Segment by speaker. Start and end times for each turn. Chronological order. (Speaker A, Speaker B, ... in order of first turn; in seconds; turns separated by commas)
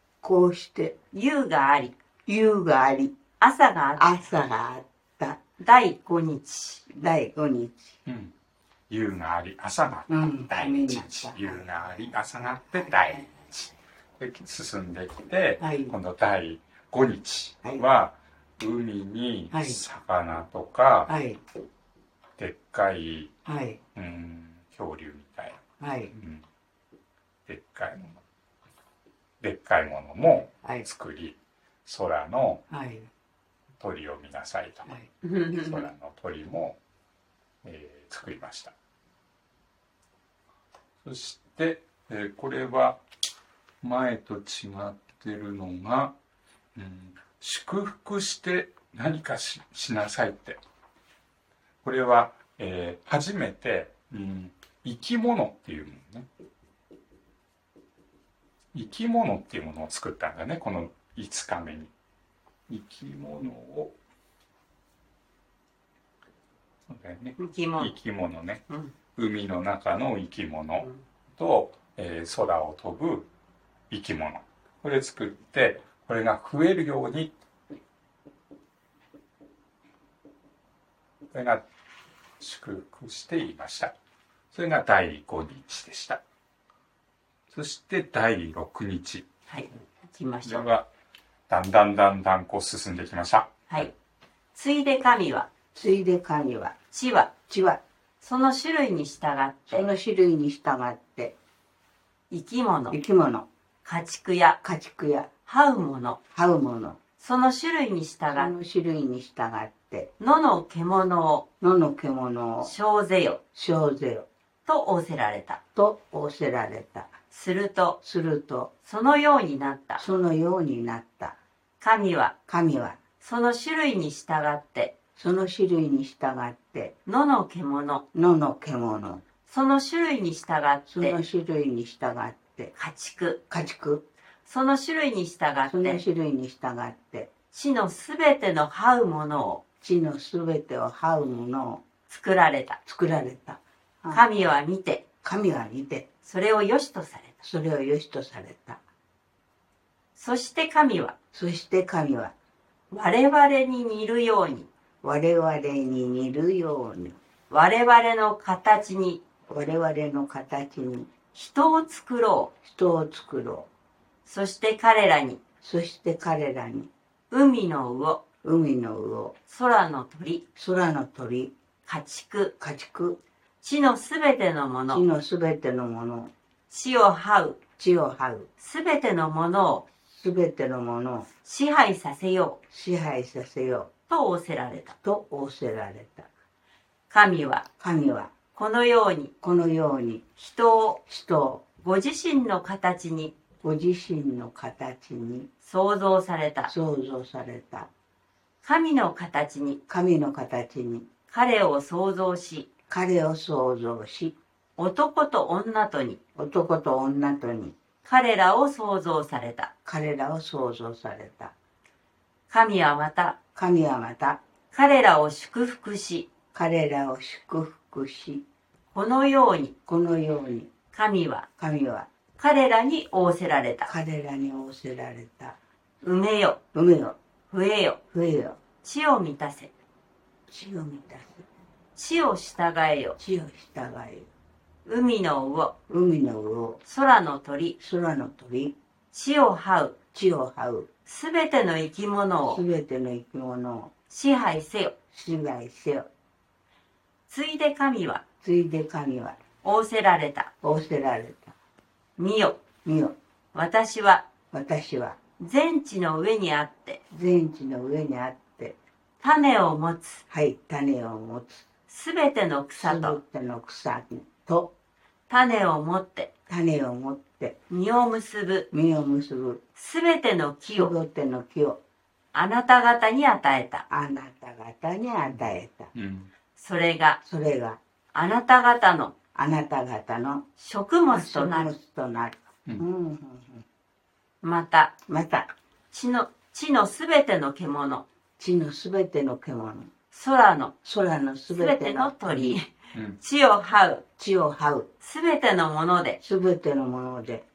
Speaker A: 0.2-1.0, Speaker B: 1.1-1.9, Speaker A: 2.2-3.1, Speaker B: 3.4-4.2, Speaker A: 4.0-5.4, Speaker B: 5.6-6.8, Speaker A: 6.9-8.0, Speaker C: 8.1-8.3, Speaker C: 8.9-21.1, Speaker A: 10.1-13.2, Speaker A: 15.6-15.9, Speaker A: 19.5-19.8, Speaker A: 21.1-21.4, Speaker C: 22.4-23.3, Speaker A: 23.4-23.8, Speaker C: 23.9-25.6, Speaker A: 25.8-26.1, Speaker C: 26.1-26.4, Speaker C: 27.4-28.2, Speaker C: 29.4-32.6, Speaker A: 32.7-33.1, Speaker C: 33.8-34.9, Speaker B: 35.2-35.7, Speaker C: 35.5-36.8, Speaker C: 37.6-38.7, Speaker C: 41.0-43.0, Speaker C: 43.8-46.1, Speaker C: 46.7-50.6, Speaker C: 51.8-56.3, Speaker C: 58.7-61.9, Speaker C: 62.7-64.0, Speaker C: 66.9-68.6, Speaker B: 67.4-68.0, Speaker C: 69.2-73.3, Speaker C: 73.9-77.3, Speaker C: 81.3-81.7, Speaker C: 82.4-83.9, Speaker C: 84.5-86.2, Speaker C: 87.5-89.3, Speaker B: 89.5-90.6, Speaker C: 90.4-90.9, Speaker C: 91.5-93.9, Speaker B: 94.5-95.5, Speaker A: 95.7-96.8, Speaker B: 96.9-97.3, Speaker A: 97.5-97.8, Speaker B: 98.2-99.8, Speaker A: 99.7-101.3, Speaker B: 102.3-103.0, Speaker A: 102.9-103.5, Speaker B: 103.8-104.6, Speaker A: 104.6-105.3, Speaker B: 105.5-106.2, Speaker A: 106.3-107.0, Speaker B: 107.2-108.5, Speaker A: 108.3-110.1, Speaker B: 110.2-111.4, Speaker A: 111.6-112.7, Speaker B: 112.6-113.4, Speaker A: 113.5-114.3, Speaker B: 114.7-115.6, Speaker A: 115.7-117.1, Speaker B: 117.3-118.0, Speaker A: 118.0-118.7, Speaker B: 118.8-120.0, Speaker A: 120.0-121.4, Speaker B: 121.8-122.3, Speaker A: 122.5-123.0, Speaker B: 123.2-124.9, Speaker A: 125.2-126.9, Speaker B: 127.0-128.0, Speaker A: 128.1-129.2, Speaker B: 129.5-131.2, Speaker A: 130.9-132.7, Speaker B: 132.7-133.4, Speaker A: 133.5-134.0, Speaker B: 134.4-136.0, Speaker A: 135.7-137.3, Speaker B: 137.5-139.6, Speaker A: 139.8-141.8, Speaker B: 142.1-142.8, Speaker A: 142.8-144.3, Speaker B: 144.1-145.0, Speaker A: 145.2-146.1, Speaker B: 146.2-147.3, Speaker A: 147.4-148.8, Speaker B: 150.2-151.1, Speaker A: 151.3-152.3, Speaker B: 152.9-154.7, Speaker A: 155.0-157.2, Speaker B: 157.5-159.2, Speaker A: 159.5-161.1, Speaker B: 161.3-162.5, Speaker A: 162.6-163.7, Speaker B: 164.2-165.4, Speaker A: 165.6-166.9, Speaker B: 167.3-168.2, Speaker A: 168.4-169.3, Speaker B: 169.5-170.4, Speaker A: 170.6-171.5, Speaker B: 171.8-172.5, Speaker A: 172.6-173.2, Speaker B: 173.6-175.0, Speaker A: 174.9-176.3, Speaker B: 176.7-177.6, Speaker A: 177.8-178.5, Speaker B: 178.6-179.8, Speaker A: 180.1-181.3, Speaker B: 181.4-182.6, Speaker A: 182.7-183.9, Speaker B: 184.1-184.9, Speaker A: 185.0-186.3, Speaker B: 187.1-187.7, Speaker A: 187.8-188.3, Speaker B: 188.5-189.3, Speaker A: 189.4-190.2, Speaker B: 190.4-191.0, Speaker A: 191.1-191.6, Speaker B: 191.8-193.3, Speaker A: 193.6-195.5, Speaker B: 195.6-196.7, Speaker A: 196.7-197.9, Speaker B: 198.6-199.8, Speaker A: 199.9-201.1, Speaker B: 201.3-202.7, Speaker A: 202.9-204.3, Speaker B: 204.8-206.2, Speaker A: 206.3-207.7, Speaker B: 208.0-209.7, Speaker A: 209.8-211.5, Speaker B: 212.5-213.3, Speaker A: 213.5-214.4, Speaker B: 214.7-216.3, Speaker A: 216.5-218.4, Speaker B: 218.9-219.7, Speaker A: 219.9-220.7, Speaker B: 220.9-221.4, Speaker A: 221.6-222.1, Speaker B: 222.4-223.9, Speaker A: 223.9-225.6, Speaker B: 226.0-226.6, Speaker A: 226.7-227.2, Speaker B: 227.5-228.0, Speaker A: 228.1-228.6, Speaker B: 228.8-229.7, Speaker A: 230.5-231.4, Speaker B: 231.9-233.2, Speaker A: 233.2-234.3, Speaker B: 234.8-235.7, Speaker A: 235.9-236.8, Speaker B: 236.8-237.8, Speaker A: 237.8-238.7, Speaker B: 239.1-240.0, Speaker A: 240.1-240.9, Speaker B: 241.1-242.6, Speaker A: 242.5-243.9, Speaker B: 244.1-244.9, Speaker A: 245.1-246.1, Speaker B: 247.3-248.2, Speaker A: 248.4-249.4, Speaker B: 249.6-250.5, Speaker A: 250.6-251.5, Speaker B: 252.2-252.6, Speaker A: 252.8-253.2, Speaker B: 253.5-254.2, Speaker A: 254.5-255.2, Speaker B: 255.4-257.0, Speaker A: 257.1-258.8, Speaker B: 259.2-260.2, Speaker A: 260.3-261.6, Speaker B: 261.9-263.2, Speaker A: 262.8-264.7, Speaker B: 265.3-266.3, Speaker A: 266.5-267.6, Speaker B: 267.7-268.7, Speaker A: 268.7-269.6, Speaker B: 269.8-270.9, Speaker A: 270.7-271.8, Speaker B: 272.3-273.8, Speaker A: 273.9-275.9, Speaker C: 275.9-276.3, Speaker B: 276.6-277.2, Speaker A: 277.2-277.8, Speaker B: 278.1-279.1, Speaker A: 279.3-280.4, Speaker B: 280.6-281.7, Speaker A: 281.1-283.6, Speaker B: 284.4-284.9, Speaker A: 285.1-285.5, Speaker B: 285.9-288.1, Speaker A: 288.4-289.9, Speaker B: 290.1-290.7, Speaker A: 290.8-292.5, Speaker B: 291.5-294.0, Speaker A: 294.2-294.9, Speaker B: 295.0-296.2, Speaker A: 296.2-297.4